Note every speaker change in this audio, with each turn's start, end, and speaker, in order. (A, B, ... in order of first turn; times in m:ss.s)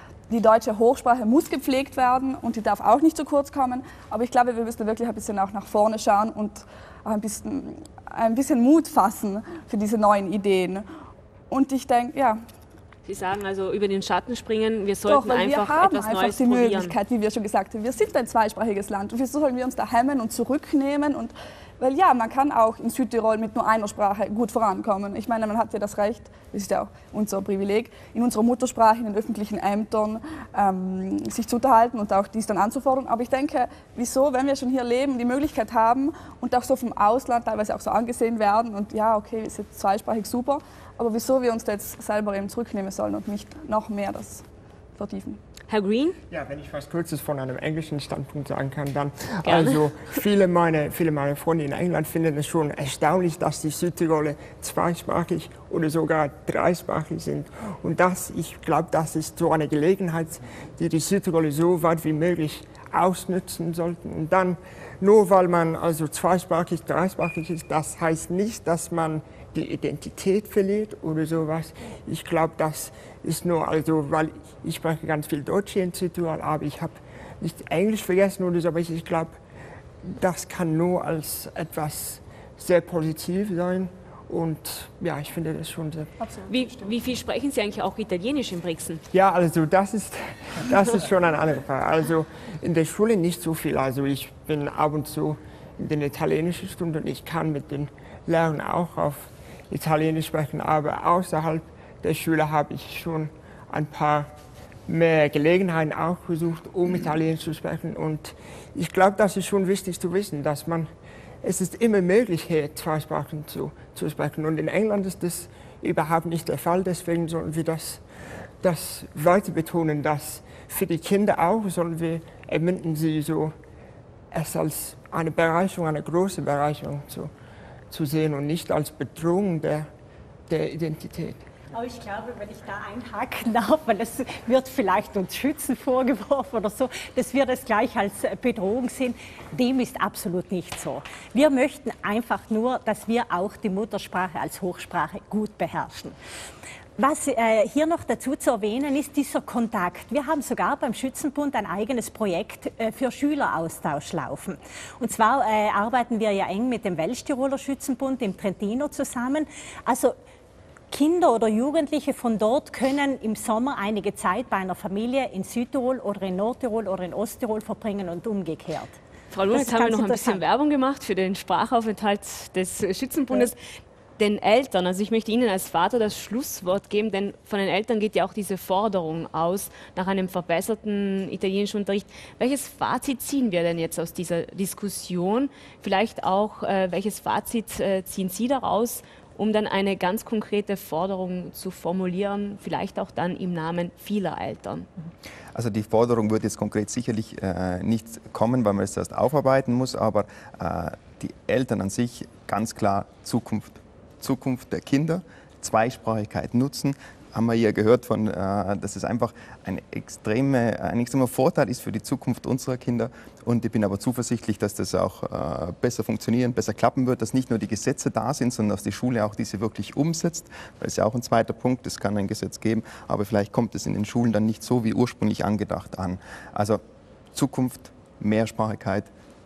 0:00.3-0:10.8 A
0:11.5-0:12.4 A
0:13.1-0:17.0 B
0:15.1-0:44.4 A
0:45.0-0:45.4 A
0:45.7-0:46.2 B
0:46.3-1:19.4 C
0:49.4-0:49.9 B
1:20.0-1:26.2 C
1:26.2-1:26.8 A
1:26.5-1:29.0 B
1:29.1-1:44.3 C
1:44.9-1:50.9 C
1:51.4-1:58.0 C
1:58.6-2:03.5 C
2:04.3-2:07.3 C
2:07.9-2:09.9 C
2:10.5-2:11.4 C
2:11.7-2:26.2 D
2:27.0-2:40.2 D
2:40.9-2:49.0 D
2:49.3-2:53.6 B
2:49.5-2:50.4 D
2:54.2-3:14.9 B
3:15.6-3:46.8 E
3:47.3-3:49.1 E